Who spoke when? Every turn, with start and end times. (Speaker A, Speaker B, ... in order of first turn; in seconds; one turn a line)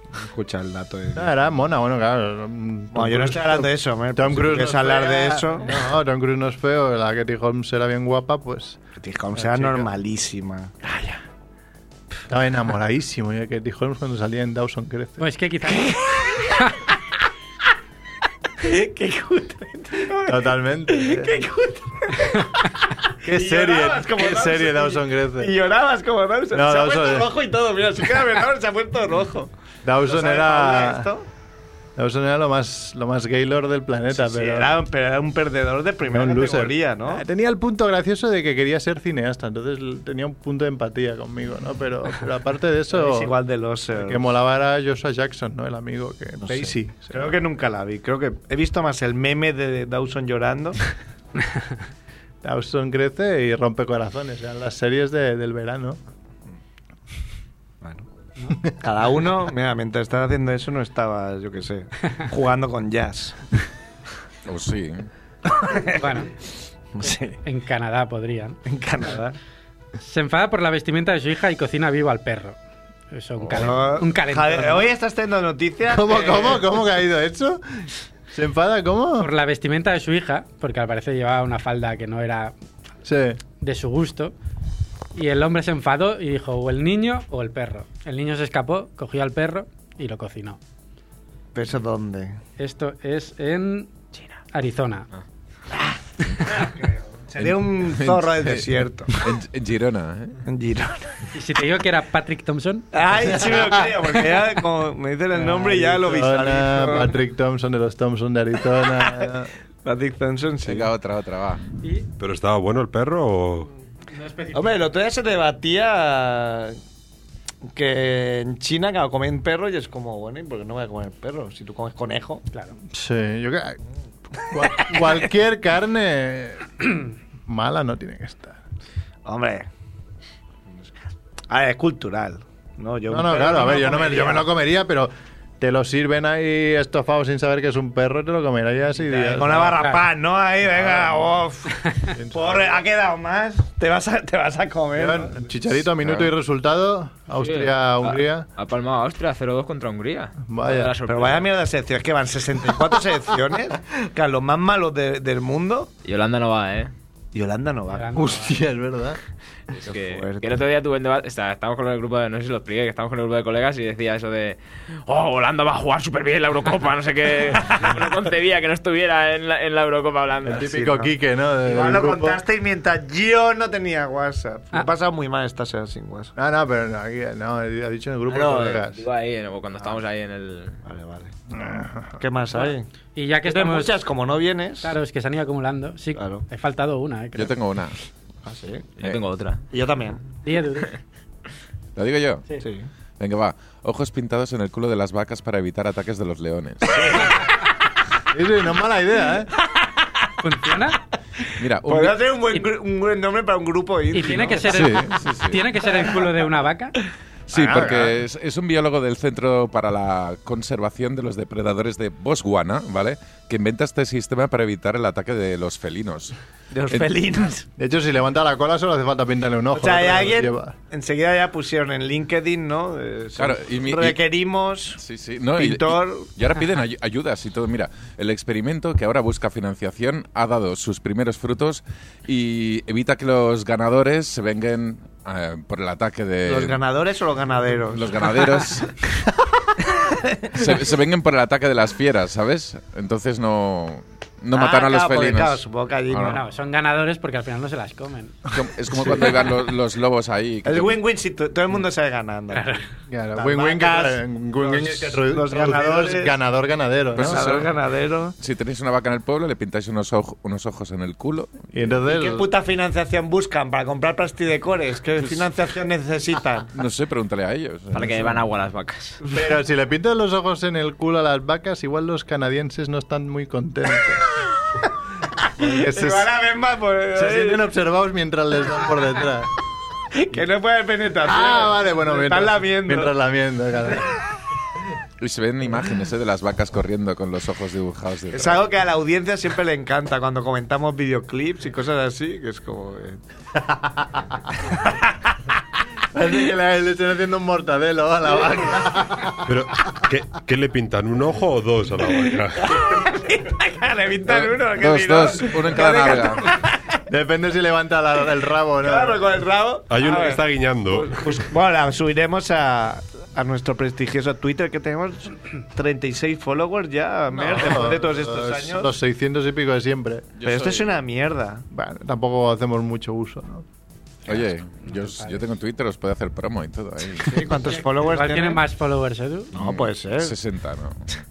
Speaker A: 0.1-1.3
Speaker B: 1.1-8.8
Speaker A: 2.9-5.9
Speaker A: 8.9-10.7
Speaker B: 9.3-9.9
Speaker B: 10.8-11.2
Speaker B: 12.3-15.2
Speaker C: 15.2-16.7
Speaker A: 15.8-16.6
Speaker A: 18.6-22.7
Speaker B: 20.2-21.4
Speaker B: 23.2-25.5
Speaker A: 23.2-29.5
Speaker B: 26.5-27.3
Speaker B: 29.8-31.1
Speaker A: 30.0-31.3
Speaker B: 31.9-34.7
Speaker A: 34.1-37.2
Speaker B: 36.1-43.3
Speaker A: 42.9-44.2
Speaker B: 43.9-47.4
Speaker A: 46.4-50.8
Speaker B: 52.4-56.0
Speaker A: 57.8-58.1
Speaker A: 58.8-63.4
Speaker D: 64.5-65.1
Speaker A: 65.5-66.0
Speaker C: 65.9-66.3
Speaker A: 66.9-67.4
Speaker C: 67.4-68.6
Speaker A: 68.6-69.3
Speaker C: 70.0-72.6
Speaker C: 73.1-74.9
Speaker D: 73.4-73.7
Speaker A: 73.5-76.7
Speaker B: 75.9-79.3
Speaker C: 79.2-82.5
Speaker B: 83.0-83.4
Speaker C: 83.6-84.3
Speaker C: 85.1-90.6
Speaker A: 91.5-92.4
Speaker C: 92.6-93.9
Speaker C: 94.5-95.1
Speaker A: 95.7-99.2
Speaker D: 97.4-100.4
Speaker A: 100.4-101.3
Speaker C: 101.3-102.9
Speaker A: 102.9-107.2
Speaker B: 103.3-103.8
Speaker B: 105.3-109.5
Speaker A: 109.8-110.9
Speaker D: 110.6-111.6
Speaker E: 112.2-113.7
Speaker C: 114.1-114.8
Speaker A: 114.5-116.8
Speaker A: 117.7-122.4
Speaker B: 122.9-123.8
Speaker B: 124.4-126.9
Speaker B: 127.5-128.6
Speaker A: 129.2-129.7
Speaker A: 131.5-134.5
Speaker B: 133.1-139.8
Speaker A: 139.0-145.4
Speaker C: 139.8-140.0
Speaker B: 140.7-141.4
Speaker B: 142.0-142.8
Speaker B: 144.9-148.5
Speaker D: 146.0-146.3
Speaker F: 147.4-151.5
Speaker B: 150.5-150.9
Speaker A: 151.1-155.9
Speaker F: 156.0-156.9
Speaker A: 157.3-158.1
Speaker C: 157.9-158.6
Speaker B: 158.1-159.2
Speaker F: 159.7-170.7
Speaker A: 159.8-160.5
Speaker B: 170.4-172.4
Speaker A: 170.5-176.3
Speaker B: 176.3-179.0
Speaker F: 178.3-180.8
Speaker A: 180.8-181.3
Speaker B: 181.5-182.2
Speaker A: 182.2-182.9
Speaker C: 183.1-183.9
Speaker A: 183.4-184.9
Speaker C: 184.8-187.5
Speaker A: 186.1-186.4
Speaker D: 187.3-187.9
Speaker A: 188.4-188.9
Speaker F: 189.0-189.6
Speaker A: 189.7-190.2
Speaker C: 190.4-191.0
Speaker D: 191.9-192.4
Speaker A: 192.6-192.9
Speaker D: 193.2-197.3
Speaker A: 196.9-197.3
Speaker B: 198.3-199.5
Speaker A: 199.8-200.1
Speaker C: 200.4-201.0
Speaker D: 201.6-202.3
Speaker A: 201.8-204.8
Speaker C: 204.1-206.9
Speaker D: 204.7-205.6
Speaker D: 207.5-216.3
Speaker A: 207.5-207.9
Speaker B: 207.6-208.1
Speaker A: 216.7-217.6
Speaker B: 217.8-220.7
Speaker A: 219.7-225.0
Speaker D: 223.3-224.2
Speaker D: 224.9-236.8
Speaker A: 225.6-226.3
Speaker A: 236.4-238.3
Speaker D: 237.9-239.0
Speaker A: 239.9-240.5
Speaker D: 240.5-246.4
Speaker A: 244.5-246.4
Speaker C: 246.3-248.5
Speaker D: 248.5-251.0
Speaker A: 250.6-252.8
Speaker C: 252.5-252.8
Speaker B: 253.1-257.5
Speaker A: 253.3-256.3
Speaker D: 257.1-257.7
Speaker A: 257.2-258.3
Speaker D: 258.4-261.5
Speaker B: 261.7-262.5
Speaker A: 262.1-266.7
Speaker D: 265.2-265.4
Speaker D: 266.7-268.4
Speaker F: 267.9-269.2
Speaker B: 269.3-274.2
Speaker A: 275.4-277.6
Speaker B: 275.6-276.3
Speaker B: 277.1-279.5
Speaker A: 280.1-283.1
Speaker B: 281.2-284.2
Speaker D: 285.2-288.7
Speaker A: 288.3-293.2
Speaker B: 293.6-294.2
Speaker A: 294.6-295.3
Speaker B: 296.1-299.5
Speaker E: 299.4-302.8
Speaker A: 302.6-306.8
Speaker D: 304.2-306.5
Speaker B: 307.1-309.2
Speaker A: 308.8-318.9
Speaker E: 309.9-311.4
Speaker B: 317.3-320.3
Speaker D: 320.4-321.0
Speaker A: 320.4-321.6
Speaker B: 321.7-323.6
Speaker D: 324.2-327.6
Speaker C: 324.3-325.4
Speaker A: 327.2-328.6
Speaker C: 327.7-329.5
Speaker A: 329.5-330.3
Speaker D: 329.5-331.1